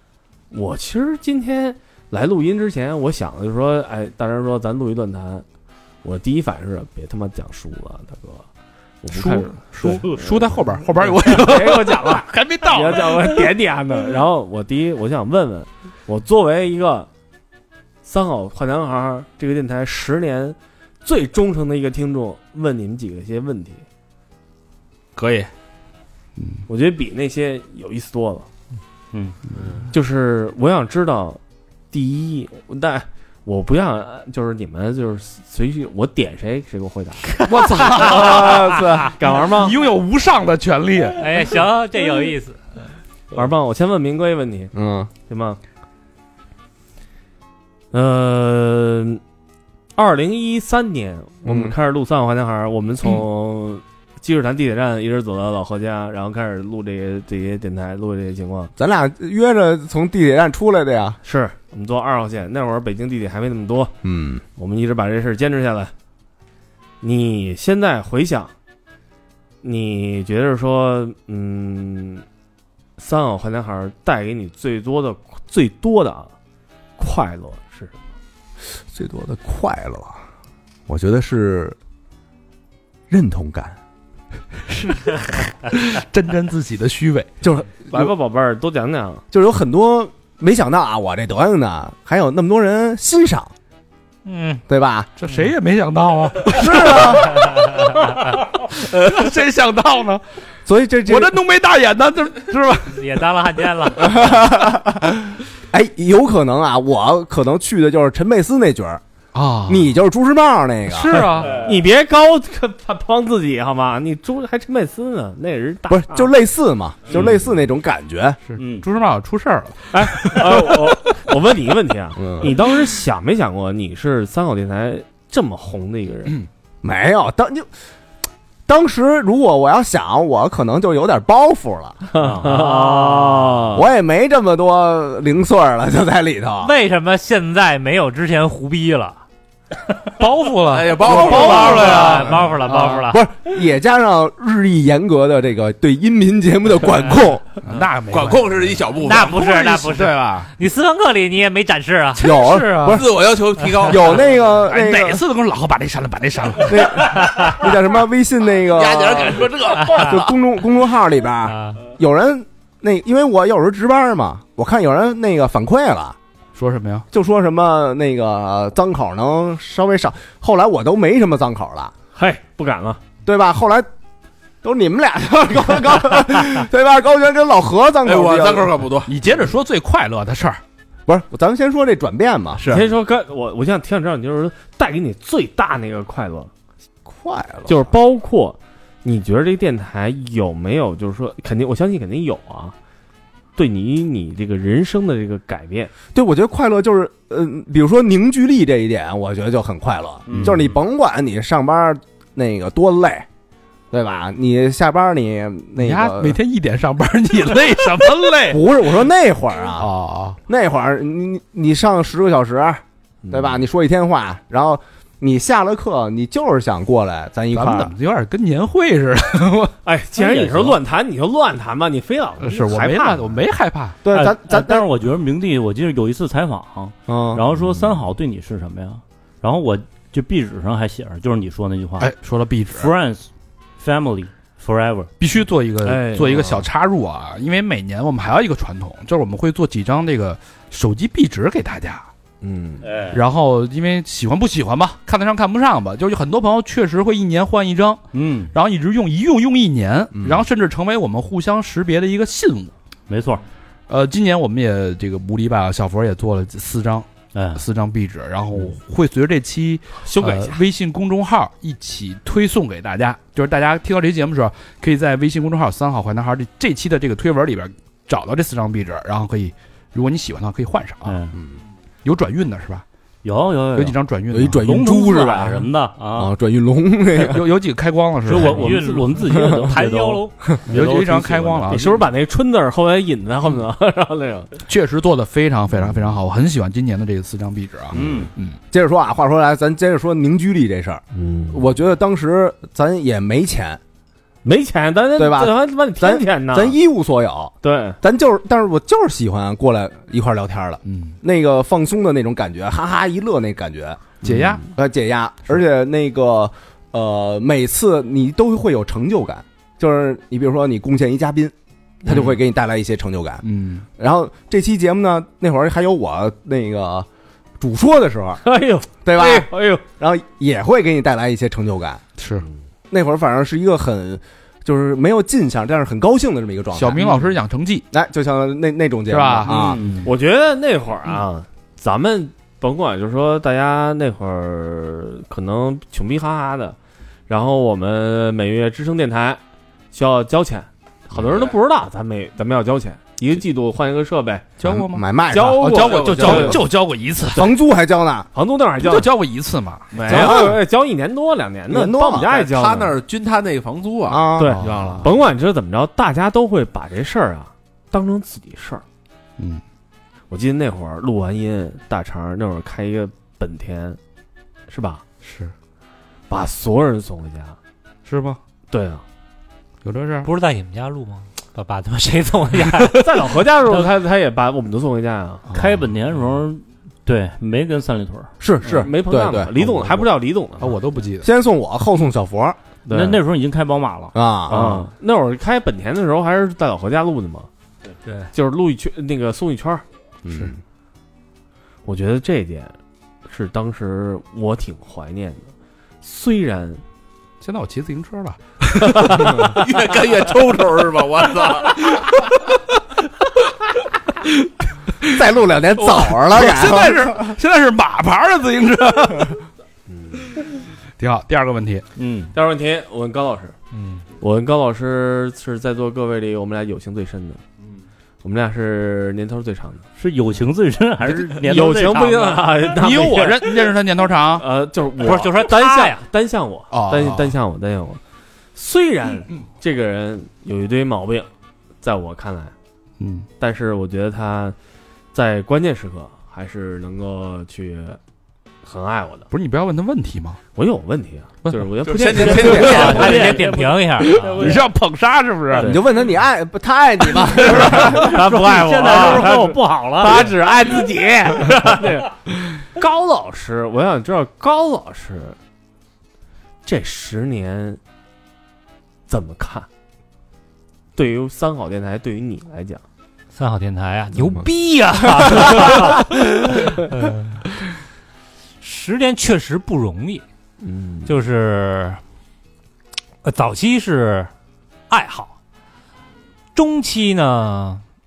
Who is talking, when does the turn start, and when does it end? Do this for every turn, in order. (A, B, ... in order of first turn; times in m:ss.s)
0:00.5-0:05.4 A
0:06.0-0:08.4 A
0:09.0-0:10.2 A
0:09.1-0:13.5 B
0:11.0-0:17.1 A
0:18.0-0:23.8 A
0:25.2-0:25.5 C
0:26.7-0:28.5 A
0:29.6-0:29.8 C
0:29.9-0:31.4 A
0:31.9-0:39.8 A
0:37.5-0:41.6 B
0:37.6-0:38.9 D
0:38.2-0:38.8 E
0:41.2-0:42.6 D
0:43.3-0:44.7 A
0:44.7-0:45.1 E
0:45.2-0:45.6 A
0:47.9-0:49.2 A
0:50.0-0:58.7 A
0:51.4-0:51.7 E
0:58.8-1:01.2 E
1:01.2-1:03.9 A
1:04.0-1:04.4 E
1:04.6-1:05.9 A
1:07.0-1:08.5 A
1:09.6-1:12.2 A
1:13.0-1:16.3 A
1:17.0-1:18.0 A
1:18.9-1:20.2 E
1:20.9-1:21.8 E
1:23.1-1:23.8 E
1:24.7-1:27.4 B
1:27.4-1:28.1 E
1:27.9-1:29.2 A
1:29.3-1:33.5 E
1:34.2-1:34.6 D
1:34.7-1:35.1 E
1:35.2-1:40.2 B
1:36.5-1:37.3 E
1:40.6-1:41.4 E
1:41.0-1:43.3 B
1:42.9-1:44.2 D
1:44.0-1:49.0 E
1:49.3-1:50.0 B
1:49.6-1:51.4 E
1:50.9-1:51.6 B
1:51.5-1:51.7 F
1:51.6-1:56.3 A
1:55.9-1:58.4 E
1:58.5-2:00.9 B
1:58.6-1:58.8 F
1:59.9-2:06.4 A
2:02.2-2:02.5 E
2:06.8-2:07.7 E
2:08.7-2:12.0 E
2:12.1-2:13.8 A
2:12.2-2:12.5 F
2:12.4-2:13.6 D
2:13.7-2:16.7 E
2:16.6-2:19.2 D
2:20.2-2:22.9 B
2:20.7-2:22.4 C
2:21.0-2:22.1 E
2:21.1-2:23.2 D
2:22.7-2:27.6 E
2:27.6-2:28.6 B
2:28.1-2:30.5 C
2:29.0-2:32.3 D
2:32.2-2:33.1 E
2:32.3-2:33.0 B
2:32.8-2:34.4 C
2:33.8-2:35.2 E
2:34.2-2:37.5 B
2:36.6-2:46.2 E
2:38.7-2:40.3 C
2:41.4-2:41.8 D
2:46.5-2:47.1 B
2:47.1-2:51.9 E
2:52.1-2:53.0 A
2:53.2-2:53.9 E
2:54.6-2:58.8 E
2:58.0-2:59.1 C
2:59.0-3:00.6 B
3:01.1-3:02.6 E
3:02.6-3:02.9 C
3:02.7-3:06.5 A
3:07.0-3:07.9 E
3:07.7-3:12.7 A
3:13.6-3:15.9 A
3:16.1-3:23.3 E
3:20.3-3:20.8 F
3:23.9-3:26.4 E
3:25.8-3:28.6 B
3:28.5-3:29.9 E
3:29.8-3:30.4 B
3:30.5-3:37.9 E
3:33.2-3:33.6 A
3:37.5-3:39.7 B
3:39.8-3:43.4 A
3:40.2-3:40.8 F
3:42.4-3:44.0 B
3:44.0-3:44.8 E
3:44.1-3:52.1 F
3:47.1-3:47.5 E
3:52.0-3:52.9 B
3:52.7-3:55.1 F
3:55.2-4:02.1 B
3:55.8-3:56.6 A
4:02.4-4:02.8 A
4:02.8-4:03.2 F
4:03.1-4:12.7 B
4:08.1-4:08.5 F
4:10.1-4:10.5 E
4:13.1-4:13.4 F
4:13.9-4:31.2 B
4:17.3-4:17.6 F
4:20.0-4:20.6 A
4:31.0-4:31.4 F
4:32.0-4:32.8 B
4:33.2-4:36.3 F
4:33.7-4:34.6 B
4:34.3-4:37.4 E
4:37.2-4:38.8 B
4:38.2-4:41.9 F
4:38.5-4:39.1 A
4:39.2-4:39.7 E
4:39.7-4:40.3 D
4:40.7-4:42.0 B
4:41.7-4:44.5 A
4:44.7-4:48.6 B
4:47.9-4:48.3 F
4:48.7-4:53.8 E
4:51.1-4:51.6 A
4:54.4-4:56.8 A
4:55.2-5:04.2 E
4:57.6-4:58.0 A
5:00.8-5:01.1 B
5:04.2-5:04.6 B
5:04.7-5:11.5 E
5:12.0-5:13.4 E
5:13.4-5:13.8 B
5:14.0-5:17.1 E
5:17.6-5:18.4 E
5:18.4-5:19.8 A
5:19.0-5:22.0 E
5:22.2-5:22.5 B
5:22.9-5:27.2 E
5:26.7-5:27.8 B
5:27.9-5:29.8 E
5:29.1-5:29.8 B
5:29.5-5:30.1 F
5:30.0-5:36.8 A
5:37.3-5:39.4 A
5:39.9-5:44.4 A
5:44.6-5:47.5 B
5:44.6-5:46.4 E
5:45.3-5:46.6 A
5:45.7-5:46.6 C
5:47.3-5:48.3 E
5:48.3-5:49.1 A
5:48.8-5:50.6 B
5:49.9-5:50.4 C
5:50.0-5:52.9 A
5:50.1-5:50.5 E
5:51.7-5:52.3 E
5:52.3-5:55.0 C
5:54.1-5:55.0 E
5:54.4-5:58.8 A
5:54.5-5:55.1 B
5:59.4-5:59.6 B
6:00.3-6:04.0 A
6:04.7-6:05.0 A
6:05.2-6:05.5 B
6:06.3-6:07.6 A
6:08.0-6:08.4 B
6:08.7-6:09.0 A
6:09.8-6:10.3 B
6:10.2-6:13.2 D
6:12.9-6:15.4 A
6:15.5-6:15.9 B
6:15.5-6:18.3 F
6:18.4-6:20.0 E
6:18.6-6:20.7 A
6:20.6-6:21.3 B
6:21.2-6:22.6 E
6:22.8-6:23.2 A
6:22.9-6:24.9 F
6:24.1-6:24.8 E
6:24.5-6:27.5 A
6:28.3-6:29.8 A
6:30.2-6:30.6 E
6:31.8-6:32.7 A
6:33.3-6:35.5 A
6:36.0-6:36.8 A
6:37.4-6:39.6 B
6:39.1-6:42.0 C
6:41.9-6:42.2 B
6:44.2-6:44.5 B
6:45.1-6:47.4 E
6:45.8-6:49.4 B
6:51.0-6:51.8 B
6:52.0-6:52.3 F
6:52.3-6:53.6 A
6:54.2-6:57.4 A
6:58.2-6:59.8 A
7:00.0-7:02.7 F
7:01.1-7:03.7 A
7:02.7-7:04.4 B
7:04.4-7:08.0 A
7:05.0-7:06.0 D
7:06.7-7:07.3 B
7:08.5-7:11.3 A
7:11.8-7:12.5 A
7:13.0-7:13.3 B
7:13.4-7:14.6 A
7:15.1-7:18.0 A
7:18.6-7:19.3 A
7:19.3-7:20.4 B
7:20.5-7:23.4 A
7:21.4-7:23.2 B
7:21.8-7:23.3 C
7:22.3-7:24.6 D
7:22.4-7:22.7 E
7:23.1-7:24.6 F
7:24.1-7:25.8 B
7:25.6-7:28.1 E
7:27.4-7:30.3 D
7:27.5-7:32.1 A
7:28.6-7:29.5 F
7:32.7-7:35.4 A
7:36.6-7:37.8 A
7:39.1-7:39.7 A
7:41.0-7:42.8 A
7:43.3-7:47.3 D
7:48.6-7:50.2 D
7:50.6-7:51.1 A
7:51.0-7:52.0 D
7:53.2-7:54.3 D
7:54.9-7:55.4 D
7:56.5-7:57.8 D